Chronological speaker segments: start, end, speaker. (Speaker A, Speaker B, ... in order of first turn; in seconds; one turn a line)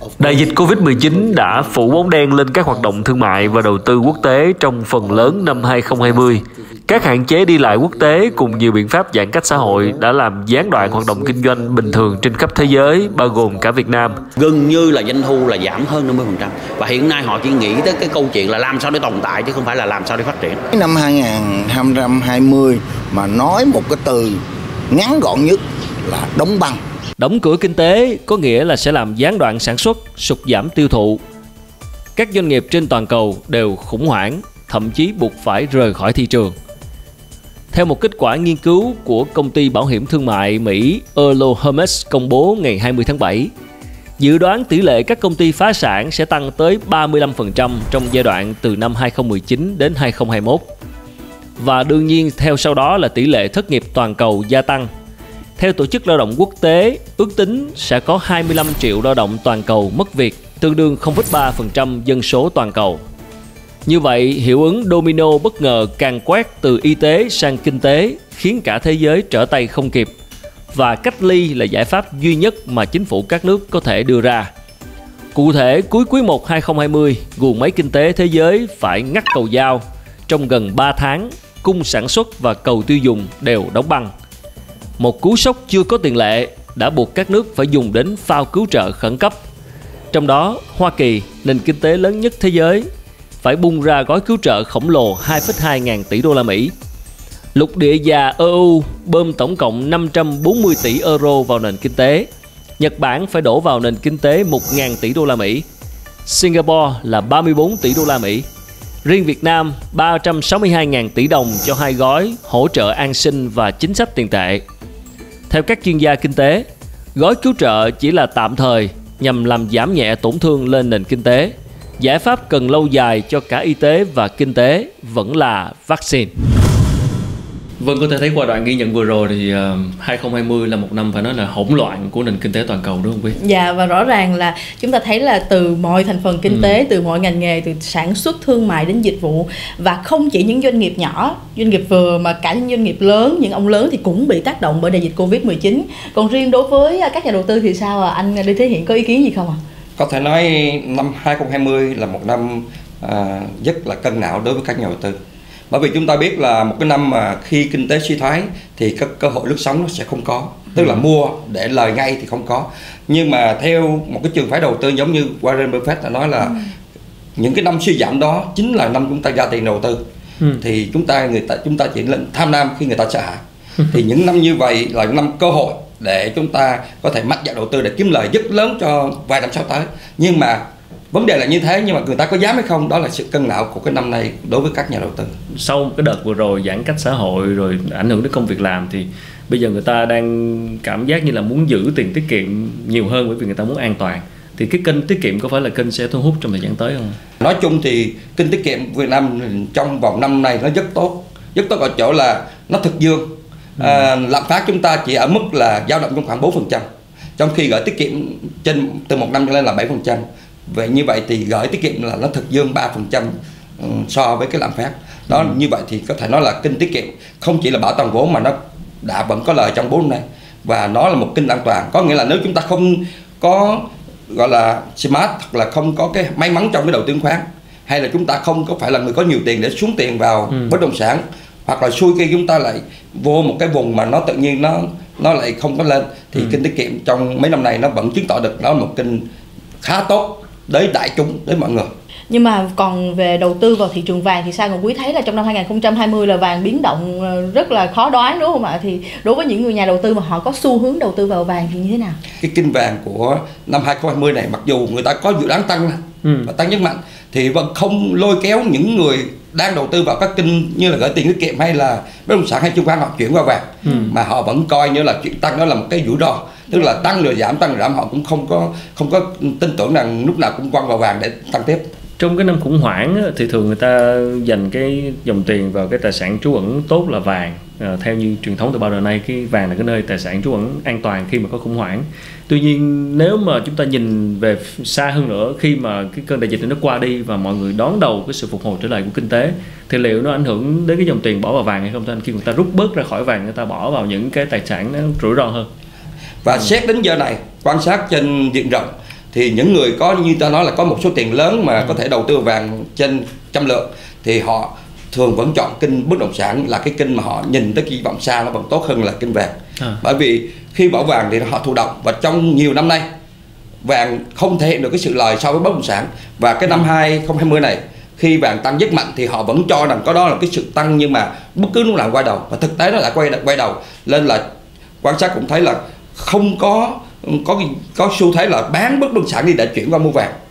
Speaker A: 0.2-14.2
Speaker B: 0.2-0.7
Speaker C: 14.3-20.6
Speaker D: 20.7-26.8
Speaker A: 27.2-31.2
Speaker A: 32.1-36.5
Speaker A: 37.7-43.5
Speaker A: 44.2-50.6
Speaker A: 51.6-54.9
Speaker A: 55.6-63.0
Speaker A: 63.8-70.1
Speaker A: 70.7-74.5
Speaker A: 75.3-84.1
Speaker A: 85.0-89.4
Speaker A: 90.1-92.8
Speaker A: 93.4-96.7
Speaker A: 97.5-102.3
Speaker A: 102.8-105.6
Speaker A: 106.2-108.4
Speaker A: 109.0-114.6
Speaker A: 115.5-126.3
Speaker B: 127.8-133.3
Speaker E: 133.4-149.6
Speaker F: 150.0-155.2
Speaker F: 155.7-166.6
Speaker F: 167.4-170.0
Speaker F: 170.6-185.3
Speaker B: 185.6-197.2
Speaker F: 197.4-206.8
Speaker F: 207.4-239.2
Speaker F: 239.8-241.9
Speaker E: 242.3-252.2
Speaker F: 252.4-271.8
Speaker B: 256.2-256.5
Speaker E: 263.9-264.1
Speaker B: 272.2-295.6
Speaker F: 296.4-313.1
Speaker F: 313.8-324.4
Speaker F: 325.0-330.3